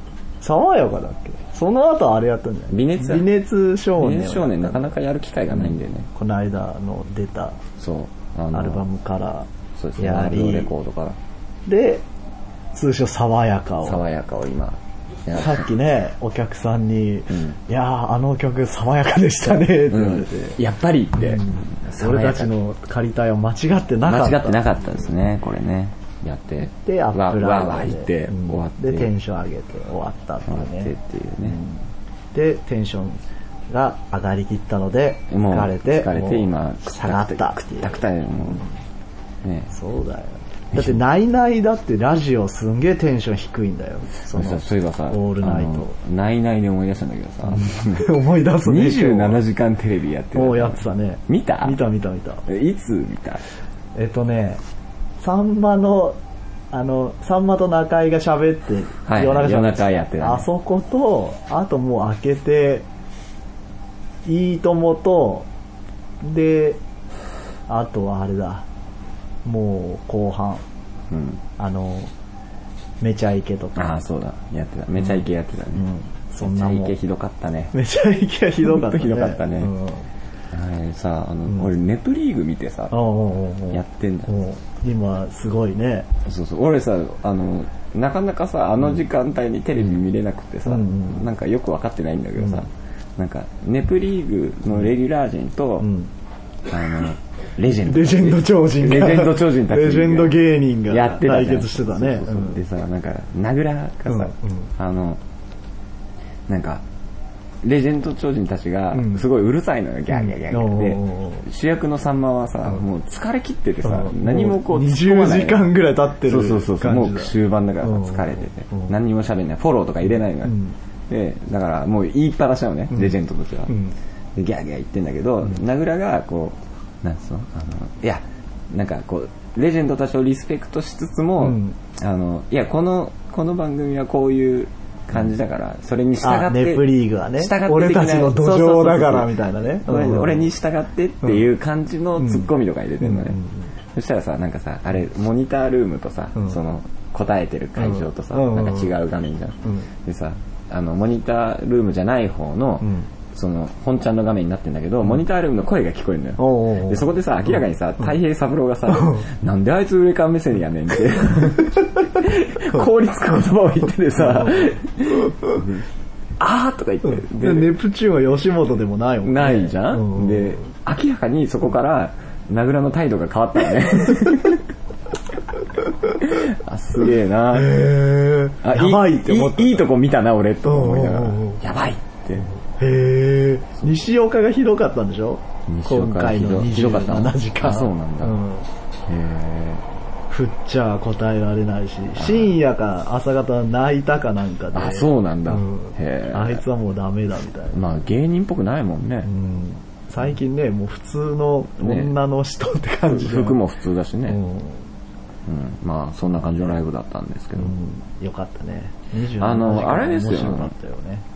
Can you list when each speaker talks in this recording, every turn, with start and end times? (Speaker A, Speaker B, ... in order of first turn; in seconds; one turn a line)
Speaker A: 0.4-4.9
Speaker B: 2.7-3.3
Speaker B: 4.0-6.1
Speaker A: 5.5-7.6
Speaker B: 7.8-8.8
Speaker A: 8.5-10.7
Speaker B: 9.8-11.2
Speaker A: 11.7-12.0
Speaker A: 12.7-14.0
Speaker B: 13.8-15.7
Speaker A: 15.3-20.6
Speaker B: 17.3-17.6
Speaker B: 19.9-22.5
Speaker A: 21.2-24.6
Speaker B: 24.1-29.1
Speaker A: 26.7-30.9
Speaker B: 30.5-31.6
Speaker A: 31.4-31.8
Speaker A: 32.3-38.7
Speaker B: 35.3-38.6
Speaker B: 39.4-39.7
Speaker A: 39.7-45.9
Speaker B: 40.7-41.0
Speaker B: 44.3-51.8
Speaker A: 47.5-49.4
Speaker A: 50.4-52.5
Speaker B: 52.5-53.4
Speaker A: 54.0-54.6
Speaker A: 55.2-56.2
Speaker A: 56.7-62.9
Speaker B: 59.1-60.5
Speaker A: 64.2-65.5
Speaker A: 66.2-66.8
Speaker A: 67.7-68.7
Speaker A: 69.5-70.6
Speaker B: 71.1-71.4
Speaker A: 71.6-72.1
Speaker A: 73.0-73.8
Speaker B: 73.8-75.8
Speaker A: 75.0-77.0
Speaker B: 76.4-77.7
Speaker A: 77.7-80.1
Speaker B: 78.6-79.7
Speaker B: 80.5-83.0
Speaker A: 82.9-86.1
Speaker B: 83.7-84.3
Speaker B: 86.2-95.9
Speaker A: 90.7-91.3
Speaker A: 92.4-92.7
Speaker A: 95.8-96.1
Speaker B: 96.7-105.2
Speaker A: 97.8-102.6
Speaker A: 104.1-104.7
Speaker B: 106.5-106.8
Speaker B: 107.6-115.7
Speaker A: 108.9-109.2
Speaker A: 110.1-111.5
Speaker A: 113.8-118.9
Speaker B: 116.2-120.6
Speaker A: 120.4-120.8
Speaker B: 121.1-123.7
Speaker A: 123.7-124.0
Speaker B: 124.3-143.4
Speaker A: 131.4-131.8
Speaker A: 136.2-140.5
Speaker A: 142.2-142.5
Speaker A: 143.0-143.7
Speaker B: 143.9-165.8
Speaker A: 147.8-148.9
Speaker A: 152.8-153.1
Speaker A: 156.4-157.1
Speaker A: 158.9-159.3
Speaker A: 164.2-164.7
Speaker B: 166.4-167.7
Speaker A: 167.1-170.7
Speaker B: 169.2-174.6
Speaker B: 176.2-177.9
Speaker A: 177.5-179.9
Speaker B: 178.6-182.5
Speaker A: 180.6-181.6
Speaker A: 182.4-188.7
Speaker B: 185.7-188.4
Speaker B: 189.1-189.8
Speaker A: 190.3-197.8
Speaker B: 192.2-192.6
Speaker B: 194.7-196.6
Speaker B: 197.7-199.3
Speaker A: 199.2-203.6
Speaker B: 201.8-202.1
Speaker B: 203.1-204.4
Speaker A: 204.3-204.8
Speaker B: 205.5-207.8
Speaker A: 207.6-211.2
Speaker B: 209.4-210.7